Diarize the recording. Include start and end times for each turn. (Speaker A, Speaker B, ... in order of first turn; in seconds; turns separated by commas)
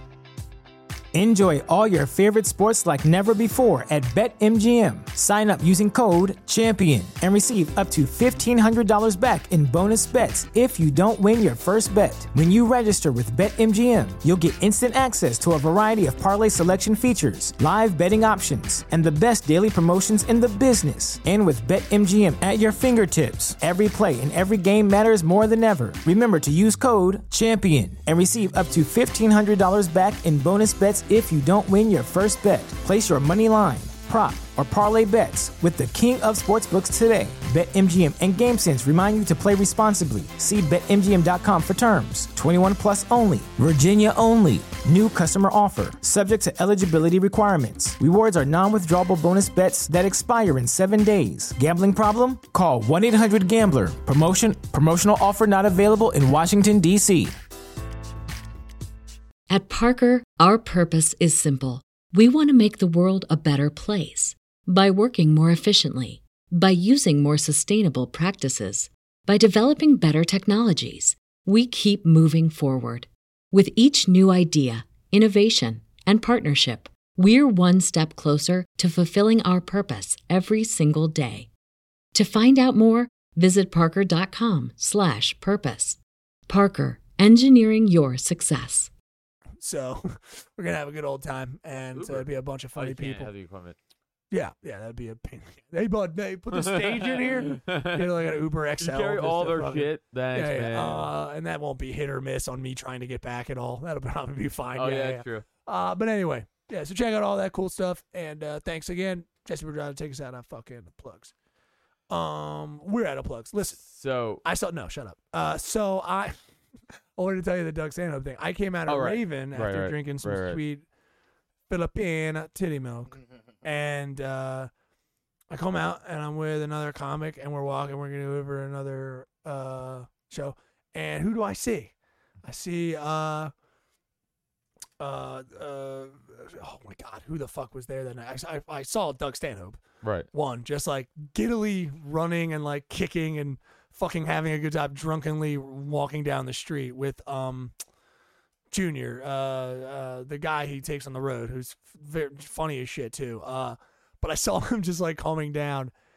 Speaker A: 1.1-57.4, Speaker B: 59.5-81.5, Speaker B: 82.1-88.9, Speaker C: 89.6-93.3, Speaker D: 91.9-93.8, Speaker C: 94.3-111.3, Speaker D: 96.5-98.2, Speaker D: 98.8-101.1, Speaker D: 104.7-105.5, Speaker C: 112.1-113.8, Speaker D: 113.8-114.4, Speaker C: 114.4-116.3, Speaker C: 117.2-120.8, Speaker D: 118.9-120.6, Speaker C: 121.7-124.7, Speaker C: 125.5-131.9, Speaker C: 132.4-133.5, Speaker C: 135.0-147.7, Speaker D: 140.0-140.3, Speaker C: 148.7-155.9